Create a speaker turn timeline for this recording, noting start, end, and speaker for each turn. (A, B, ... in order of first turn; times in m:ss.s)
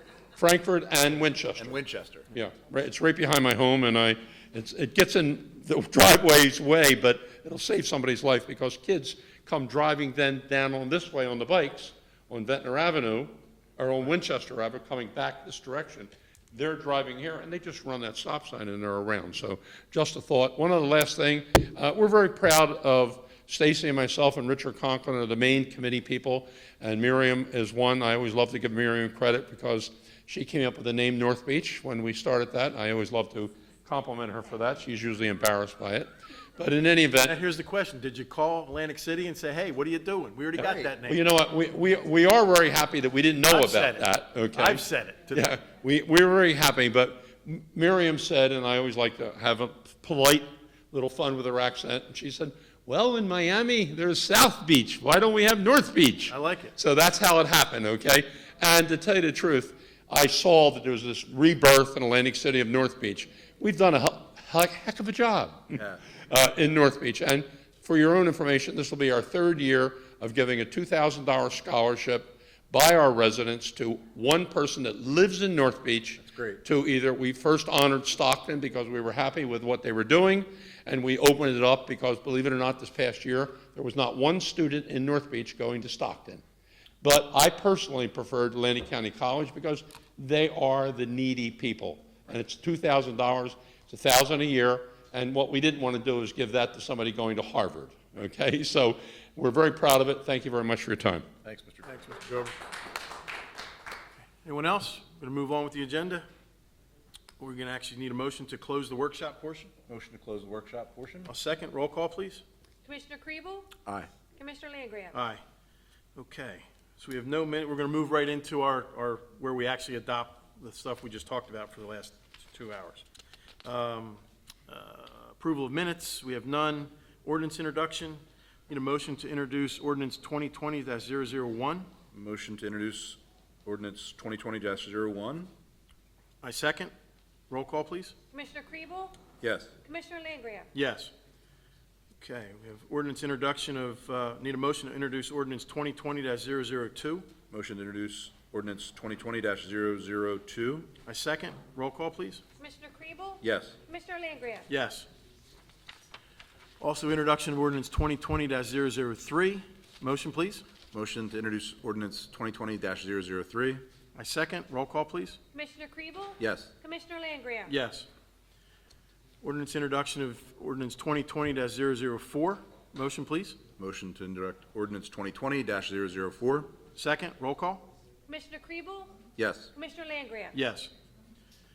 0:00.4-0:01.8 A
0:01.6-0:02.3 B
0:02.3-0:37.4 A
0:37.2-0:41.2 C
0:40.6-1:26.4 A
0:43.4-0:45.4 C
0:56.3-0:56.8 C
1:16.2-1:16.6 B
1:27.0-1:41.3 A
1:41.4-1:41.9 B
1:41.8-1:42.6 C
1:44.4-1:46.3 C
1:47.4-1:49.8 C
1:49.8-1:51.3 B
1:51.3-1:52.4 C
1:52.8-1:53.7 D
1:54.4-1:55.2 D
1:55.1-1:55.4 C
1:56.2-2:03.0 C
2:03.6-2:11.9 C
2:12.1-2:15.5 B
2:16.4-2:16.9 C
2:17.5-2:18.2 C
2:18.3-2:19.2 D
2:19.4-2:19.7 B
2:19.8-2:20.7 D
2:20.7-2:21.1 C
2:22.2-2:27.4 C
2:27.5-2:31.0 B
2:31.0-2:32.4 C
2:32.6-2:34.7 D
2:33.4-2:33.8 B
2:34.7-2:35.1 C
2:36.8-2:40.6 C
2:40.9-2:43.8 B
2:44.1-2:45.4 C
2:45.5-2:47.7 D
2:46.4-2:46.7 B
2:47.7-2:48.1 C
2:49.4-2:53.7 C
2:53.8-2:56.8 B
2:56.9-2:57.9 C
2:58.3-2:59.2 D
2:59.4-2:59.7 B
2:59.8-3:00.6 D
3:00.5-3:00.9 C